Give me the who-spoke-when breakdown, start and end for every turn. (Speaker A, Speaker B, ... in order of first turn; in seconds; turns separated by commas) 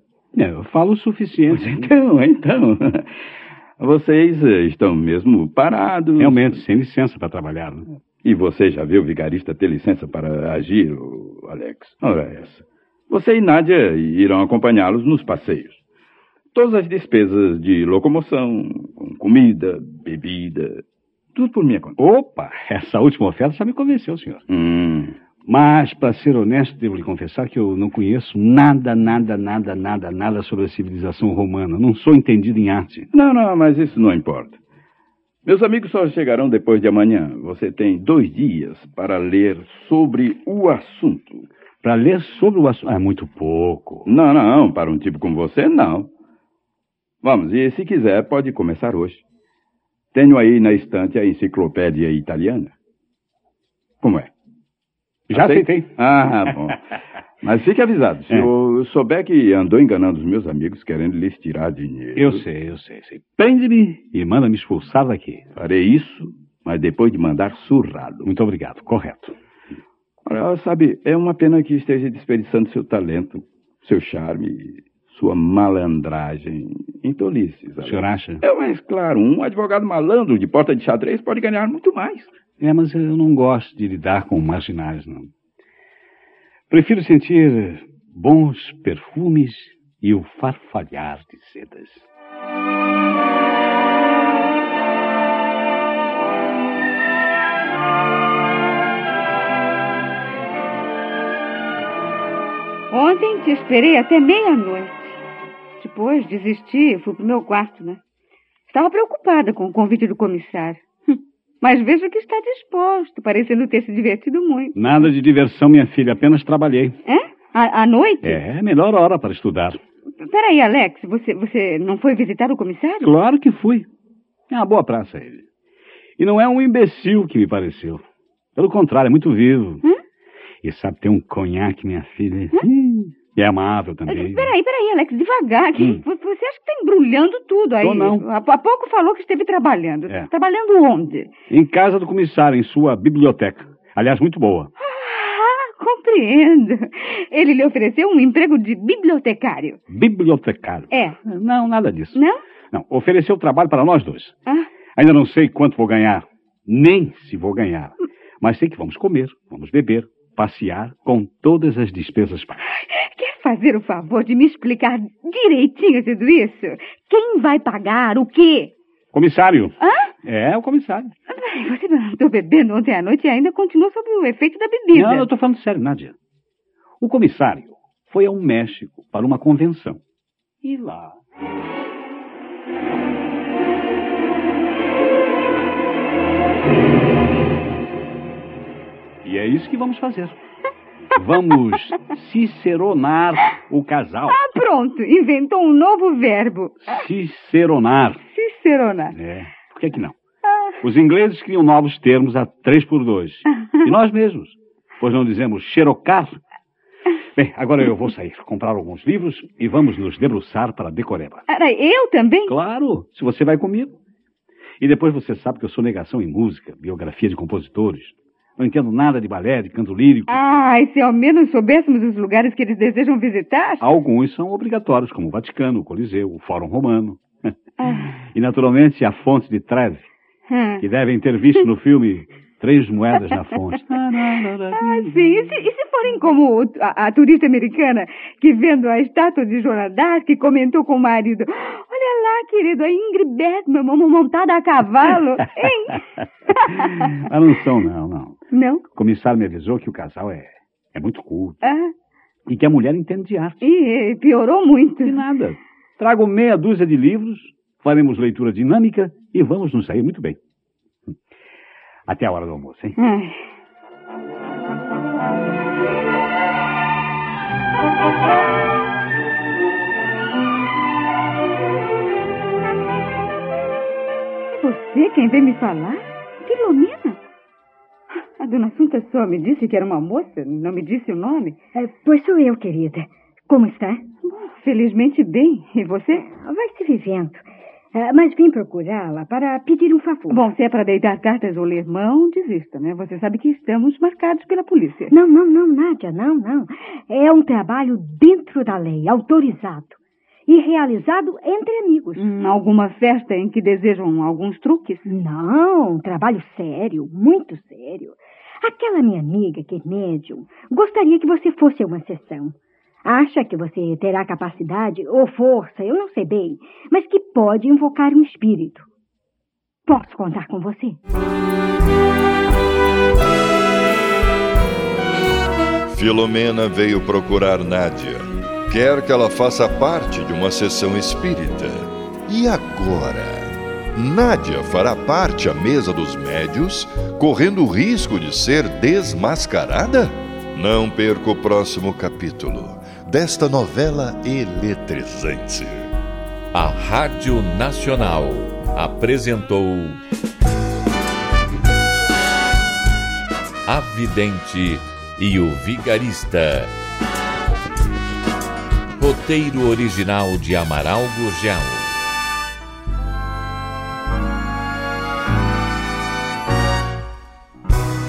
Speaker A: 0.3-1.9, Speaker B: 1.5-3.1, Speaker B: 3.8-6.6, Speaker A: 6.2-7.9, Speaker B: 8.2-15.8, Speaker B: 16.5-20.8, Speaker B: 21.3-22.0, Speaker A: 22.0-24.4, Speaker B: 24.5-25.1, Speaker A: 25.4-33.1, Speaker B: 33.1-34.6, Speaker B: 35.4-41.5, Speaker A: 41.8-44.1, Speaker B: 44.1-46.1, Speaker B: 47.2-49.2, Speaker B: 50.1-52.7, Speaker B: 54.0-54.3, Speaker A: 55.3-55.9, Speaker B: 55.3-56.8, Speaker B: 57.4-62.4, Speaker A: 62.1-65.5, Speaker B: 65.5-68.3, Speaker A: 68.2-69.3, Speaker B: 70.2-82.3, Speaker A: 77.8-78.4, Speaker A: 82.6-85.3, Speaker A: 86.7-92.0, Speaker C: 102.9-105.2, Speaker C: 105.8-108.0, Speaker C: 108.7-114.8, Speaker A: 114.7-117.0, Speaker C: 117.0-118.4, Speaker A: 118.2-119.8, Speaker C: 120.2-123.1, Speaker A: 123.0-123.9, Speaker A: 124.5-125.4, Speaker A: 126.2-128.0, Speaker A: 128.6-129.8, Speaker A: 130.6-134.5, Speaker C: 134.1-141.3, Speaker A: 137.8-138.2, Speaker A: 141.5-144.7, Speaker C: 144.8-149.8, Speaker A: 149.9-154.3, Speaker C: 150.9-151.2, Speaker A: 154.9-162.8, Speaker C: 162.8-168.7, Speaker A: 169.1-171.1, Speaker C: 169.8-170.1, Speaker C: 171.3-175.3, Speaker A: 174.9-176.1, Speaker A: 177.0-180.0, Speaker A: 180.6-181.2, Speaker A: 189.2-190.4, Speaker A: 191.2-194.4, Speaker C: 194.3-197.0, Speaker A: 196.9-198.2, Speaker C: 198.3-199.2, Speaker A: 199.1-200.2, Speaker C: 200.4-200.8, Speaker A: 200.8-206.4, Speaker C: 203.6-203.9, Speaker A: 207.3-211.4, Speaker C: 211.5-212.6, Speaker A: 212.5-214.0, Speaker A: 214.8-220.4, Speaker C: 220.3-223.8, Speaker A: 223.8-227.2, Speaker C: 227.8-228.1, Speaker A: 228.2-230.1, Speaker C: 230.5-230.8, Speaker A: 230.8-235.2, Speaker C: 234.7-247.2, Speaker A: 247.0-251.6, Speaker C: 248.5-248.8, Speaker C: 251.6-251.9, Speaker A: 252.5-253.6, Speaker C: 253.6-255.2, Speaker A: 255.0-260.4, Speaker A: 262.1-263.0, Speaker C: 263.0-263.3, Speaker C: 274.5-277.2, Speaker C: 278.4-281.6, Speaker D: 281.7-284.0, Speaker C: 284.2-286.3, Speaker D: 286.3-290.5, Speaker C: 290.3-295.1, Speaker D: 295.1-302.3, Speaker C: 302.1-305.0, Speaker D: 305.0-312.5, Speaker D: 313.1-318.9, Speaker D: 319.9-321.0, Speaker E: 325.9-345.8, Speaker F: 346.5-350.0, Speaker F: 353.7-356.7, Speaker F: 359.0-361.9